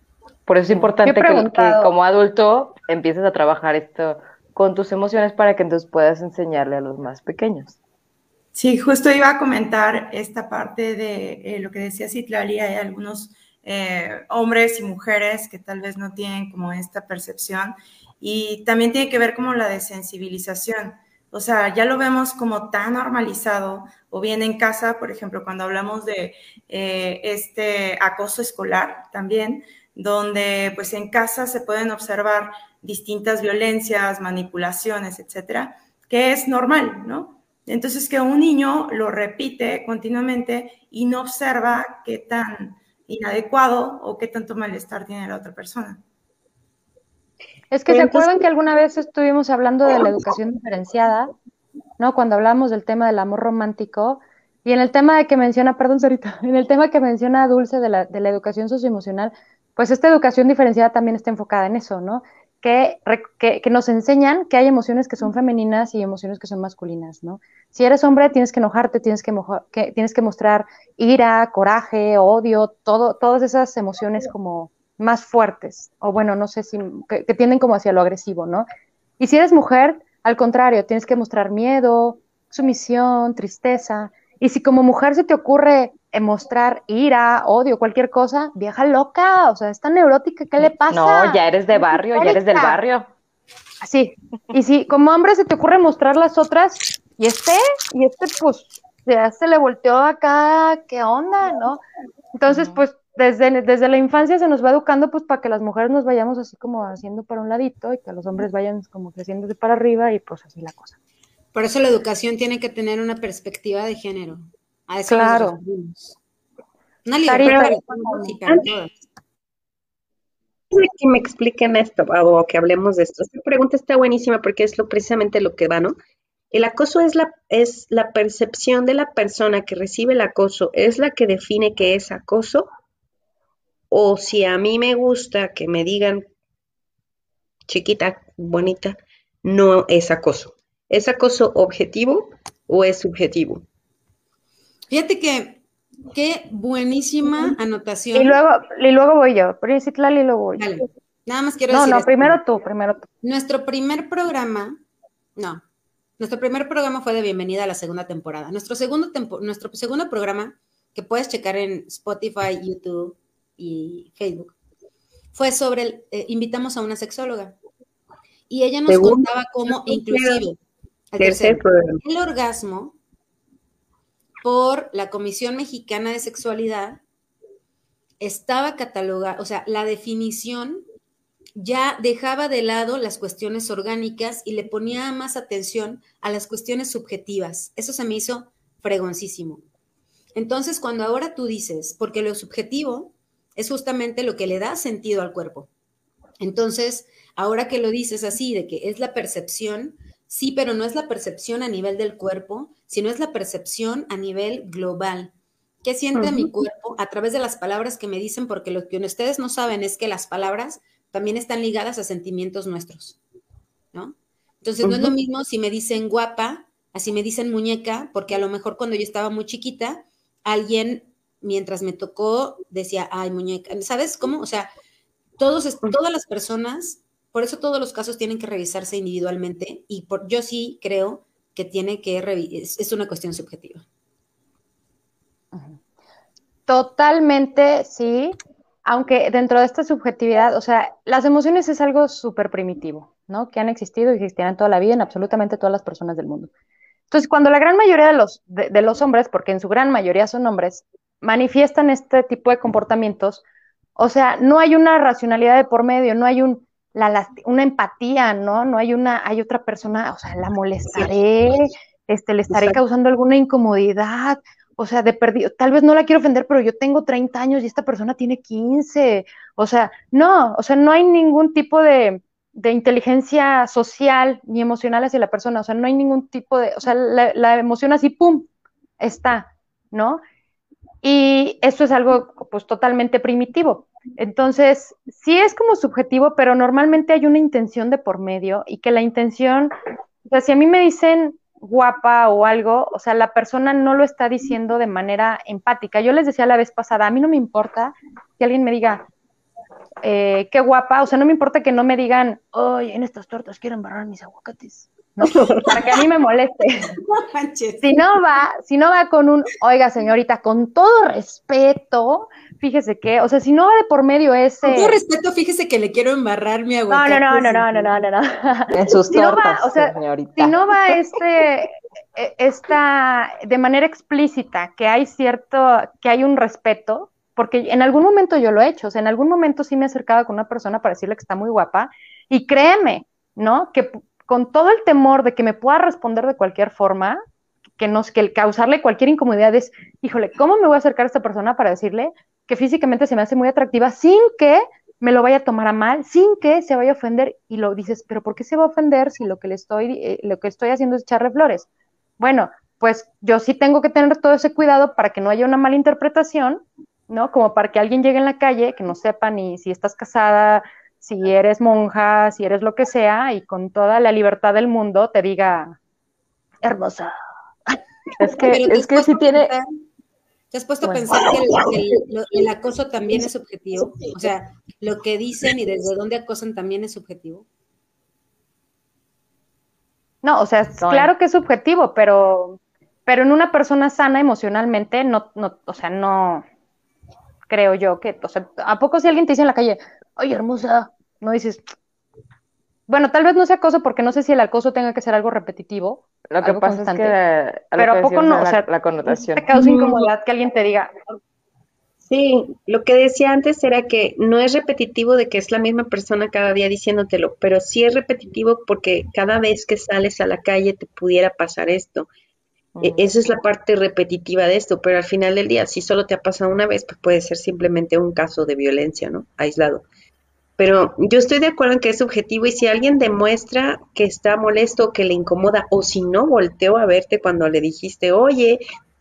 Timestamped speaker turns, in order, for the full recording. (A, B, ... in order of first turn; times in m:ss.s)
0:00.4-0:07.8 A
0:01.0-0:01.9 B
0:08.5-0:46.0 C
0:47.7-0:51.3 B
0:47.9-0:48.3 D
0:52.0-1:18.7 B
1:19.2-1:31.4 B
1:30.6-1:33.1 A
1:32.1-1:32.8 B
1:33.8-1:41.8 B
1:42.3-1:50.9 B
1:42.5-1:42.8 A
1:51.5-1:56.2 E
1:55.1-1:55.6 B
1:57.0-1:59.0 E
1:57.2-1:58.3 B
2:00.7-2:05.9 D
2:06.5-2:12.7 D
2:13.9-2:16.2 D
2:17.7-2:23.6 D
2:24.9-2:25.6 E
2:26.1-2:28.4 E
2:28.1-2:30.8 B
2:30.6-2:32.4 E
2:31.7-2:33.0 B
2:33.2-2:34.8 E
2:35.4-2:35.6 E
2:36.2-2:44.5 E
2:45.3-2:47.6 E
2:48.5-2:50.6 E
2:48.9-2:50.4 D
2:51.1-2:53.0 E
2:51.2-2:52.0 D
2:54.4-2:57.0 E
2:58.2-3:00.8 E
3:01.6-3:09.6 E
3:10.3-3:15.7 E
3:16.4-3:25.3 E
3:25.8-3:33.2 E
3:26.2-3:26.5 D
3:33.9-3:44.7 E
3:34.8-3:35.1 D
3:45.4-3:53.8 E
3:55.5-3:55.8 B
3:56.7-4:06.5 B
4:07.1-4:13.4 B
4:14.0-4:38.5 B
4:22.5-4:22.8 D
4:39.0-4:40.2 B
4:41.0-4:49.7 B
4:50.2-4:59.0 B
5:00.0-5:06.9 B
5:05.3-5:05.6 D
5:06.9-5:07.9 E
5:07.8-5:15.0 B
5:14.6-5:17.9 E
5:16.9-5:37.2 B
5:18.7-5:21.0 A
5:37.8-5:51.7 B
5:52.2-6:05.8 B
6:06.6-6:07.1 B
6:08.2-6:09.5 A
6:08.4-6:09.6 E
6:10.5-6:17.4 E
6:20.2-6:26.4 B
6:20.8-6:21.1 A
6:27.5-6:31.6 B
6:32.9-6:37.1 B
6:36.3-6:39.5 A
6:37.8-6:38.6 B
6:39.3-6:40.9 B
6:39.5-6:40.1 D
6:42.0-6:52.1 D
6:52.7-6:53.0 A
6:52.8-6:59.8 D
7:00.6-7:08.6 D